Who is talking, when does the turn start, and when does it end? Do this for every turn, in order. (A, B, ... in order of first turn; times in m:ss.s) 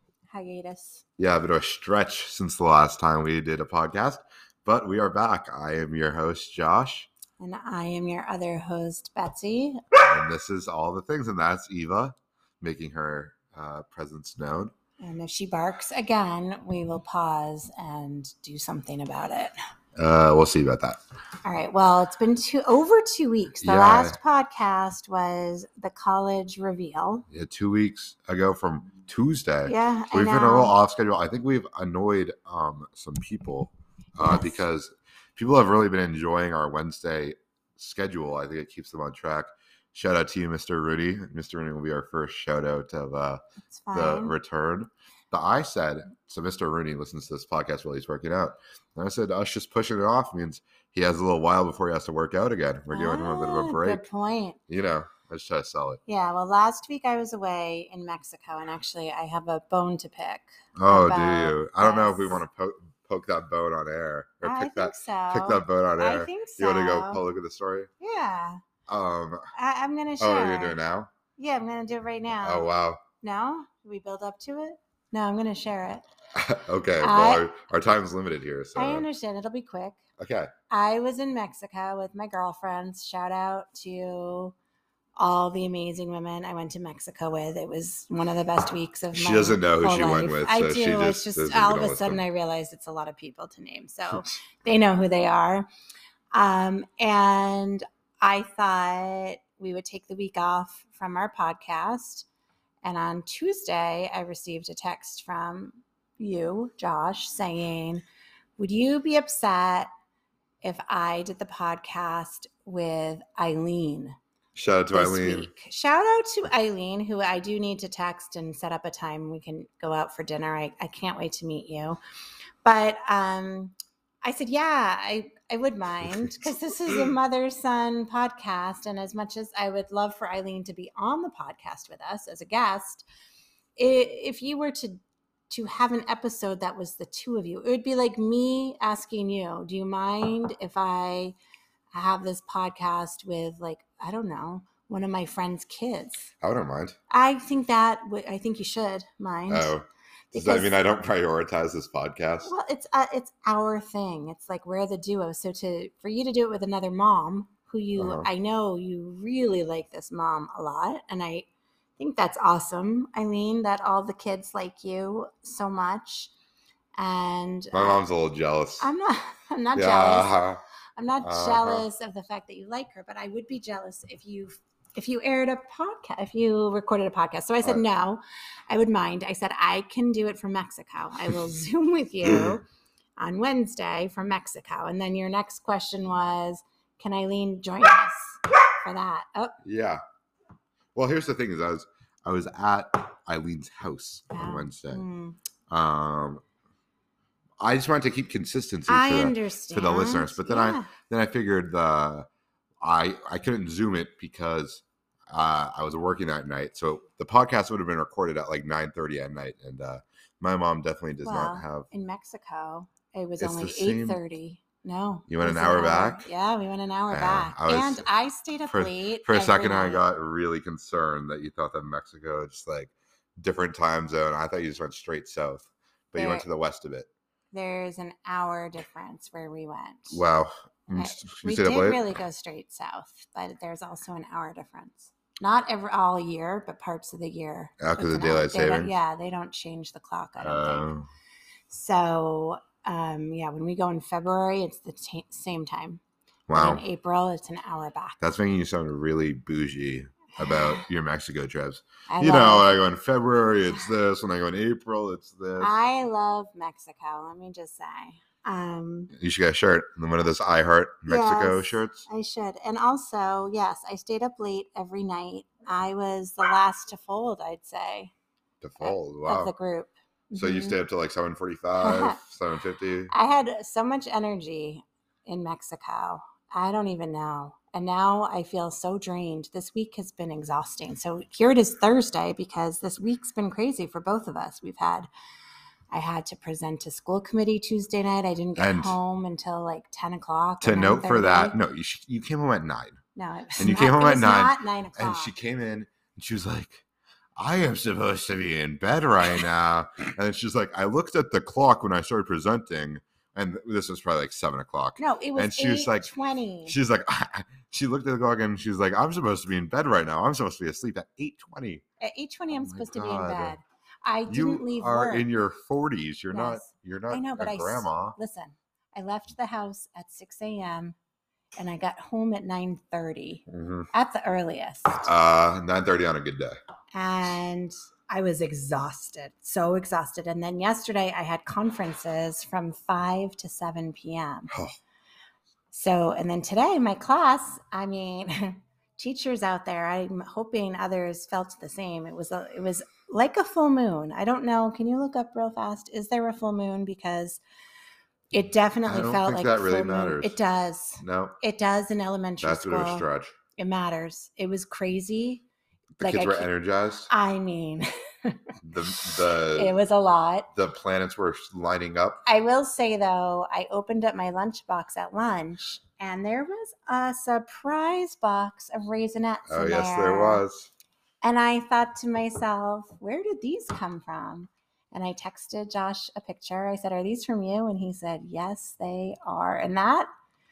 0:00.3-0:01.0 A
0:01.2-0:07.1 B
0:07.4-0:09.8 A
0:09.9-0:14.7 B
0:15.0-0:19.5 A
0:20.0-0:21.0 B
0:21.4-0:27.3 A
0:23.6-0:24.2 B
0:27.3-0:54.0 B
0:29.7-0:30.7 A
0:34.2-0:34.6 A
0:43.7-0:44.3 A
0:52.9-0:54.6 A
0:54.7-0:56.0 B
0:56.1-1:02.4 A
1:00.8-1:07.9 B
1:04.4-1:07.2 A
1:08.0-1:08.6 A
1:08.9-1:09.5 B
1:09.5-1:10.8 A
1:10.2-1:11.1 B
1:11.4-1:12.7 A
1:12.4-1:13.0 B
1:13.2-1:16.0 A
1:16.3-1:19.0 B
1:17.0-1:17.5 A
1:18.8-1:20.0 A
1:20.2-1:20.5 B
1:20.7-1:24.6 A
1:25.2-1:35.7 A
1:29.1-1:32.2 B
1:36.3-1:42.3 A
1:42.8-1:48.0 A
1:48.6-1:49.9 A
1:50.6-1:54.2 A
1:54.6-1:55.5 B
1:54.9-2:02.0 A
2:02.6-2:13.1 A
2:13.8-2:21.4 A
2:21.9-2:26.3 A
2:26.4-2:27.0 B
2:27.1-2:29.7 A
2:29.5-2:32.5 B
2:30.3-2:30.8 A
2:32.4-2:41.5 A
2:38.0-2:38.3 B
2:42.0-2:46.3 A
2:47.0-2:48.0 A
2:47.7-2:48.9 B
2:48.8-2:50.3 A
2:49.8-2:50.6 B
2:51.0-3:02.6 A
2:51.2-2:51.8 B
3:03.2-3:09.6 A
3:09.6-3:10.0 B
3:11.0-3:15.0 B
3:14.3-3:15.4 A
3:15.7-3:16.4 B
3:17.6-3:22.3 B
3:18.9-3:20.9 A
3:22.8-3:31.9 B
3:31.2-3:40.0 A
3:33.4-3:34.2 B
3:35.3-3:36.2 B
3:37.1-3:38.0 B
3:38.7-3:47.1 B
3:46.2-3:46.5 A
3:47.5-3:50.2 A
3:50.1-3:52.0 B
3:50.9-4:00.9 A
3:57.8-3:58.9 B
4:00.4-4:01.1 B
4:01.7-4:06.0 A
4:06.5-4:06.8 B
4:06.5-4:08.2 A
4:08.2-4:15.8 B
4:10.4-4:10.8 A
4:12.1-4:12.8 A
4:15.6-4:19.1 A
4:19.1-4:22.1 B
4:21.1-4:28.1 A
4:28.6-4:29.5 B
4:28.8-4:30.8 A
4:30.3-4:33.1 B
4:31.8-4:32.2 A
4:33.1-4:45.1 A
4:45.9-4:51.6 A
4:48.6-4:49.0 B
4:50.6-4:53.0 B
4:53.2-4:55.3 A
4:53.6-4:56.8 B
4:57.4-5:06.1 B
5:05.0-5:06.8 A
5:06.7-5:11.8 B
5:12.0-5:15.2 A
5:12.5-5:13.6 B
5:14.3-5:18.2 B
5:16.3-5:21.0 A
5:21.6-5:25.1 A
5:23.5-5:23.9 B
5:25.0-5:26.6 B
5:26.9-5:34.5 A
5:35.7-5:47.4 A
5:48.3-5:53.1 A
5:48.9-5:50.4 B
5:51.0-5:51.4 B
5:52.4-5:53.4 B
5:53.6-5:55.4 A
5:56.0-5:57.1 B
5:56.0-5:56.5 A
5:57.1-5:58.4 A
5:58.6-5:59.7 B
5:59.0-6:00.5 A
6:00.6-6:02.2 B
6:02.2-6:10.4 A
6:09.5-6:10.7 B
6:11.2-6:20.1 A